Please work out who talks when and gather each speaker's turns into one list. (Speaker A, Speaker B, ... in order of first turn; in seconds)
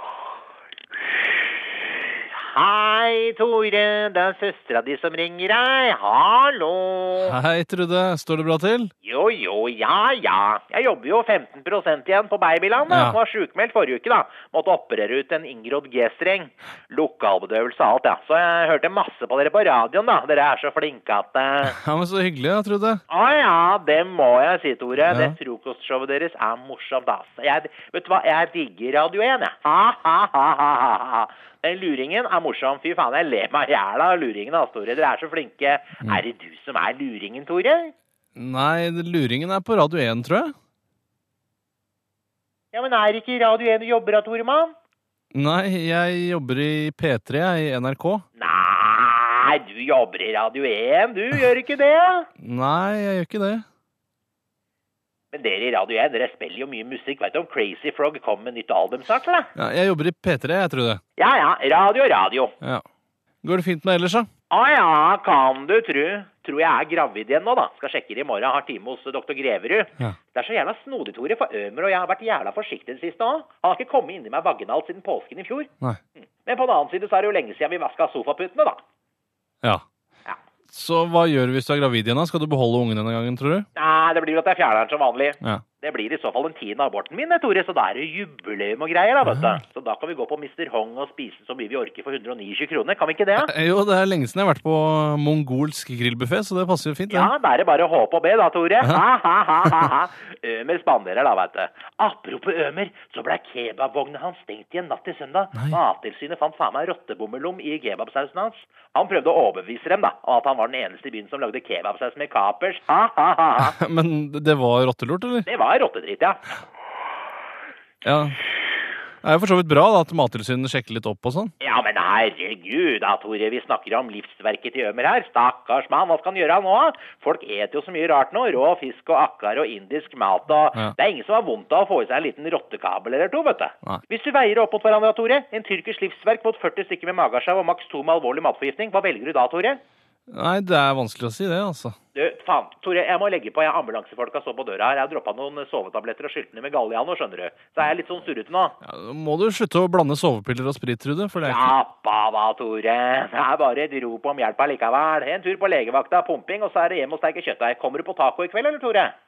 Speaker A: 2.4-7.3, 9.0-21.7, 23.1-37.9, 42.7-44.7, 48.4-52.3, 55.3-59.5, 61.2-62.5, 64.5-78.8, 83.7-93.5, 97.1-113.7, 115.5-116.5, 121.6-139.8, 142.1-148.8, 151.4-159.1
Speaker B: 7.2-8.9, 12.8-13.2, 21.6-23.0, 25.0-25.4, 38.3-40.5, 45.3-48.2, 52.4-53.6, 59.5-61.0, 63.4-64.3, 80.7-83.7, 93.4-97.3, 113.6-115.5, 118.0-118.4, 119.2-121.5, 140.3-141.9, 148.8-151.7